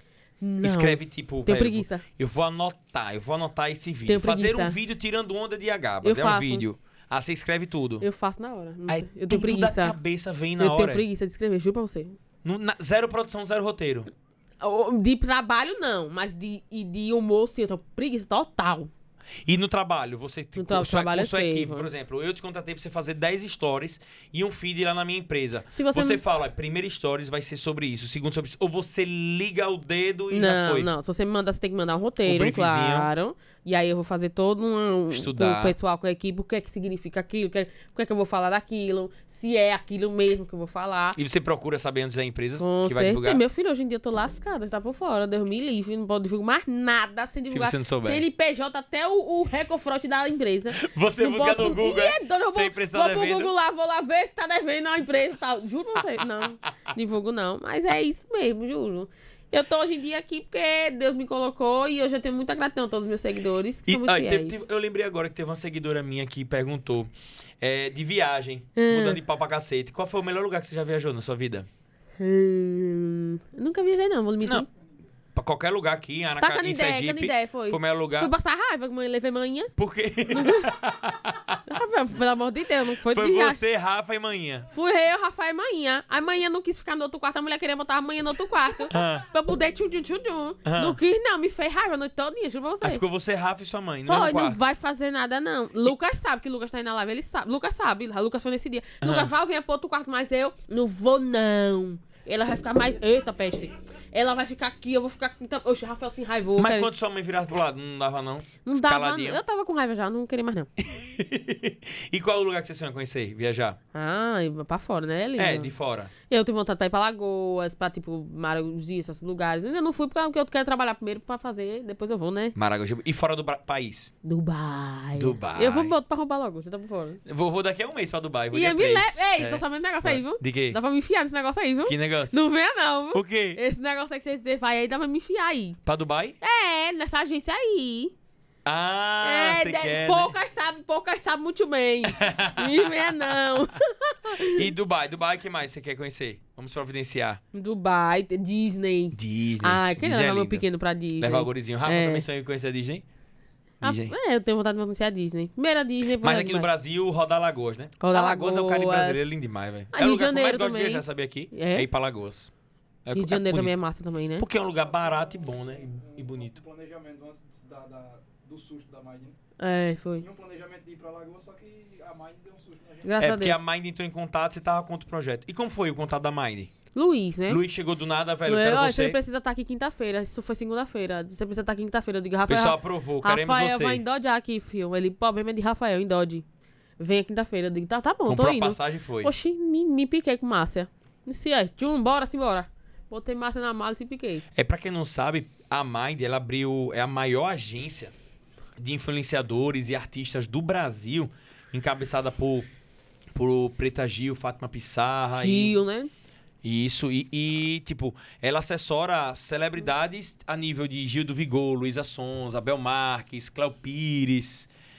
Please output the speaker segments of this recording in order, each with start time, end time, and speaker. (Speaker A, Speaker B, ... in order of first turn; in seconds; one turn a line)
Speaker A: 0.4-2.0
Speaker B: 0.6-8.1
Speaker A: 4.1-4.8
Speaker A: 6.0-6.6
Speaker A: 8.0-10.0
Speaker B: 8.9-11.1
Speaker A: 10.6-12.2
Speaker B: 12.4-14.1
Speaker A: 14.6-18.9
Speaker B: 19.5-30.9
Speaker A: 20.6-21.9
Speaker A: 25.7-26.2
Speaker A: 30.3-41.2
Speaker B: 32.2-33.1
Speaker B: 35.1-35.8
Speaker B: 41.1-43.4
Speaker A: 42.6-64.7
Speaker B: 47.5-48.2
Speaker B: 50.7-53.5
Speaker B: 63.9-71.7
Speaker A: 68.8-69.2
Speaker A: 72.2-74.7
Speaker B: 75.3-78.3
Speaker A: 76.4-79.7
Speaker B: 79.8-81.6
Speaker A: 80.3-80.8
Speaker A: 81.7-83.6
Speaker B: 83.0-84.7
Speaker A: 84.7-93.0
Speaker B: 88.9-89.3
Speaker B: 90.7-91.0
Speaker B: 92.8-94.6
Speaker A: 94.0-106.9
Speaker B: 99.0-99.3
Speaker B: 106.6-109.4
Speaker A: 108.7-110.7
Speaker B: 110.8-113.8
Speaker A: 113.9-115.7
Speaker B: 115.4-116.1
Speaker A: 116.2-122.5
Speaker B: 122.5-124.1
Speaker A: 124.2-127.2
Speaker B: 125.1-126.0
Speaker B: 127.3-130.8
Speaker A: 128.5-135.8
Speaker B: 131.8-132.4
Speaker B: 133.1-133.6
Speaker B: 135.8-136.4
Speaker A: 136.4-138.1
Speaker B: 138.7-140.3
Speaker A: 139.2-144.7
Speaker B: 142.1-143.3
Speaker B: 144.4-147.4
Speaker A: 147.5-152.2
Speaker B: 149.1-150.7
Speaker B: 151.2-153.1
Speaker B: 153.8-154.2
Speaker A: 153.8-156.7
Speaker B: 156.2-162.5
Speaker A: 158.0-159.3
Speaker A: 159.9-161.9
Speaker B: 163.1-163.7
Speaker A: 163.1-164.5
Speaker B: 164.4-166.6
Speaker C: 165.7-169.4
Speaker A: 169.6-170.3
Speaker C: 170.2-173.2
Speaker A: 173.0-173.6
Speaker B: 173.2-176.7
Speaker A: 176.9-177.6
Speaker B: 177.5-179.2
Speaker A: 178.5-186.4
Speaker B: 182.5-184.0
Speaker A: 187.0-194.4
Speaker B: 188.3-189.3
Speaker B: 194.6-198.1
Speaker B: 198.8-202.7
Speaker B: 203.3-205.8
Speaker A: 205.3-206.1
Speaker B: 206.6-214.7